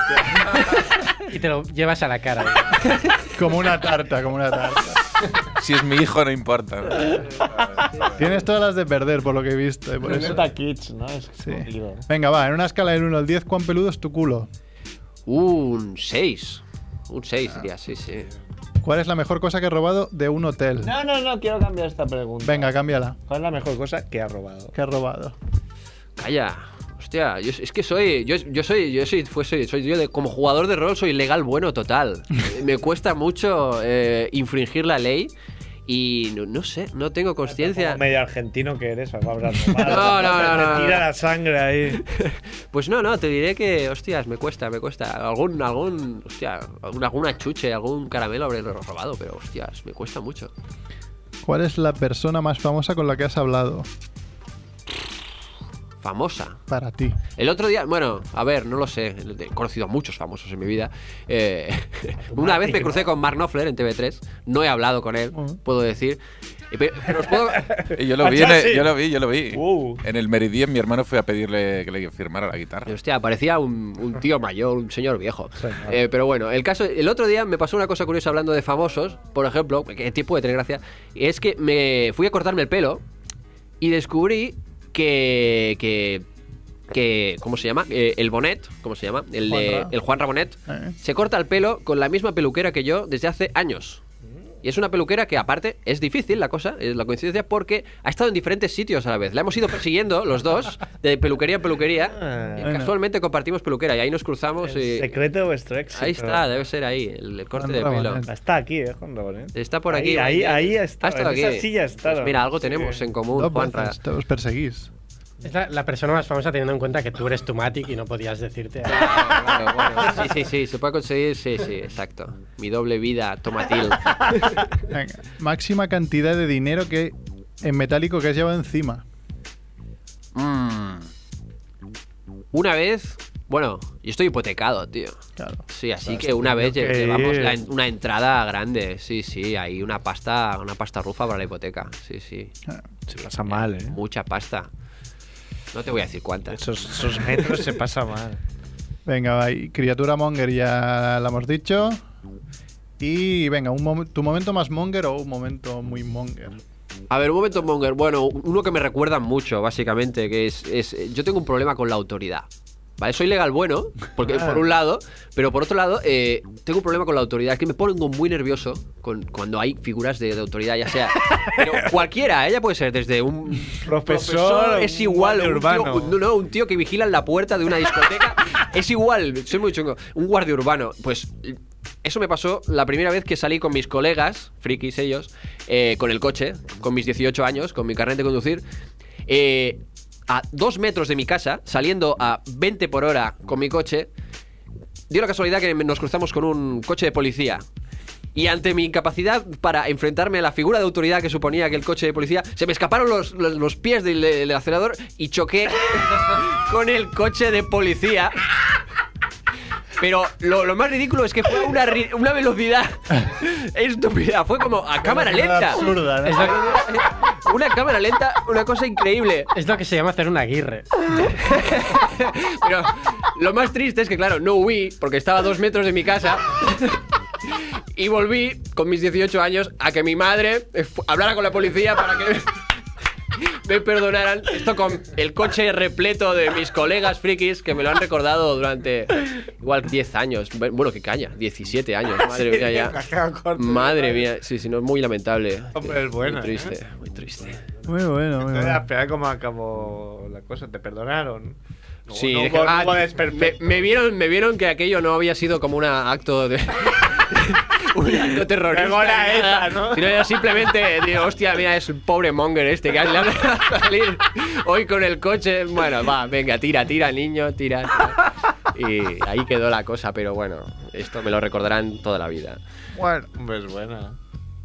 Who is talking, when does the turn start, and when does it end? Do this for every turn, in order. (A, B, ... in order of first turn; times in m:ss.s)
0:00.6-0:03.0 A
0:03.4-0:05.0 B
0:05.6-0:08.0 C
0:08.0-0:10.4 B
0:10.0-0:12.0 D
0:11.4-0:14.5 B
0:15.3-0:18.3 E
0:18.8-0:20.9 B
0:20.8-0:22.7 D
0:22.4-0:23.2 B
0:23.3-0:24.8 D
0:24.8-0:25.4 B
0:26.2-0:35.3 E
0:35.9-0:38.0 E
0:37.5-0:42.0 D
0:39.8-0:41.1 E
0:42.0-0:50.5 E
0:51.4-0:53.9 B
0:56.0-0:56.6 E
0:56.7-0:57.2 B
0:57.4-1:06.2 E
1:02.4-1:03.1 D
1:05.3-1:05.6 B
1:06.7-1:07.8 E
1:07.6-1:08.9 D
1:07.9-1:12.9 C
1:09.5-1:10.0 D
1:12.9-1:23.0 E
1:15.6-1:16.0 D
1:23.8-1:26.2 E
1:26.9-1:34.0 E
1:29.5-1:29.9 B
1:30.7-1:31.0 B
1:34.6-1:45.1 E
1:42.2-1:42.6 D
1:42.6-1:42.9 B
1:44.6-1:46.4 D
1:45.9-1:48.3 E
1:47.6-1:48.3 B
1:48.3-1:53.0 D
1:49.6-1:54.0 E
1:53.3-1:54.9 B
1:55.4-1:59.4 A
1:58.9-2:04.2 E
2:04.9-2:09.0 B
2:10.4-2:11.1 E
2:12.5-2:15.2 E
2:15.4-2:15.6 B
2:15.7-2:22.5 E
2:16.6-2:17.6 D
2:23.1-2:24.0 D
2:23.5-2:24.7 E
2:25.7-2:26.6 E
2:26.5-2:28.4 D
2:29.1-2:32.0 B
2:33.0-2:36.6 B
2:37.1-2:42.5 E
2:43.0-3:08.6 E
2:51.4-2:51.8 D
2:53.7-2:56.2 D
3:09.3-3:14.1 E
3:15.1-3:17.6 E
3:18.4-3:28.8 E
3:30.0-3:39.5 E
3:35.0-3:36.6 B
3:36.2-3:36.5 A
3:39.5-3:40.8 A
3:41.1-3:52.6 E
3:53.4-4:03.0 E
4:02.2-4:04.2 D
4:03.6-4:07.6 E
4:05.7-4:06.7 D
4:07.9-4:08.8 B
4:08.4-4:11.6 D
4:12.1-4:13.8 D
4:12.1-4:32.6 E
4:18.7-4:20.1 D
4:32.9-4:34.2 D